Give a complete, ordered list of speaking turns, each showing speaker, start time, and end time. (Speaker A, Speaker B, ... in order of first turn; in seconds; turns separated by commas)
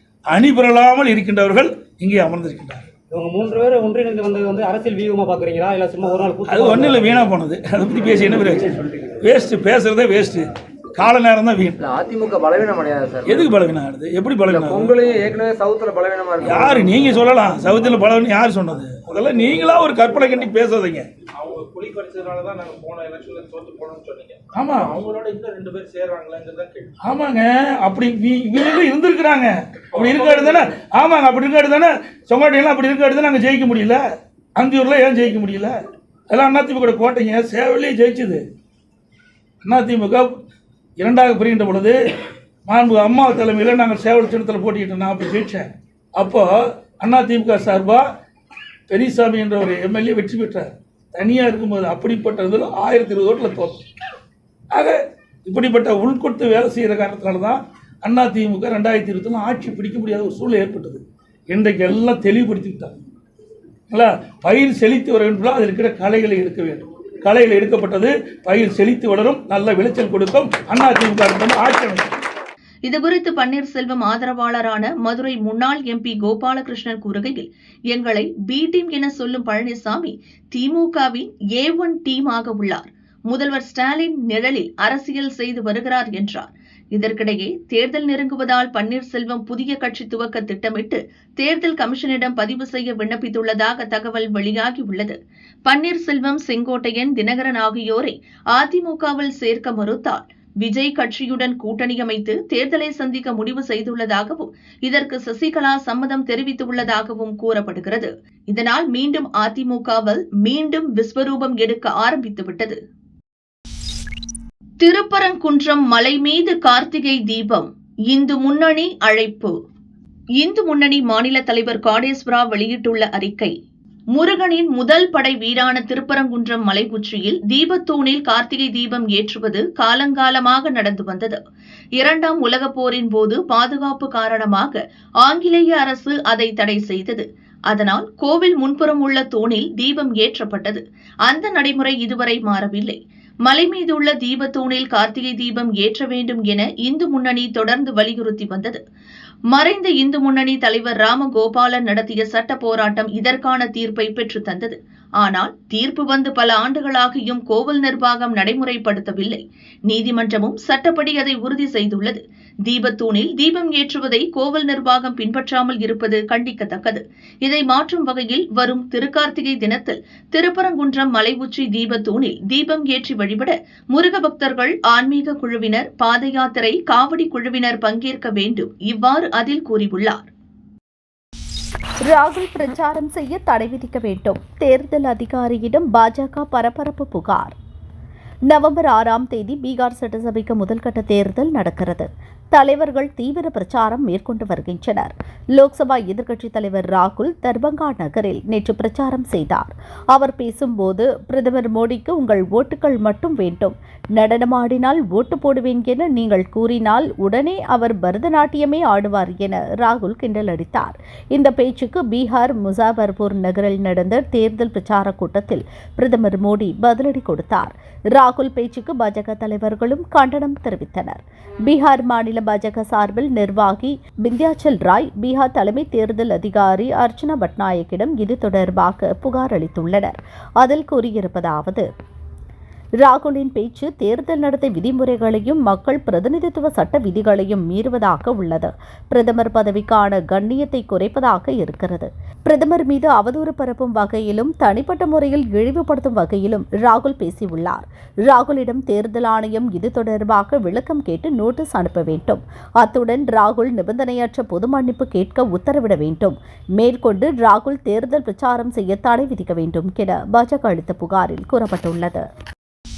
Speaker A: 0.3-2.9, Speaker B: 3.1-7.1, Speaker A: 6.5-11.8, Speaker C: 11.9-13.2, Speaker A: 13.2-15.3, Speaker C: 14.5-16.8, Speaker A: 16.4-21.1, Speaker D: 21.4-26.9, Speaker A: 24.5-25.0, Speaker A: 27.0-34.0, Speaker D: 29.9-30.6, Speaker A: 34.6-35.8, Speaker A: 36.3-38.4, Speaker A: 39.6-40.3, Speaker A: 41.0-42.0, Speaker A: 42.7-48.0, Speaker A: 48.9-53.8, Speaker A: 54.7-63.0, Speaker A: 63.9-72.1, Speaker E: 72.9-112.8, Speaker E: 114.8-119.5, Speaker E: 120.4-123.5, Speaker E: 124.1-131.4, Speaker E: 132.0-148.8, Speaker E: 149.5-180.3, Speaker F: 182.1-187.6, Speaker F: 188.5-231.9, Speaker F: 233.0-262.2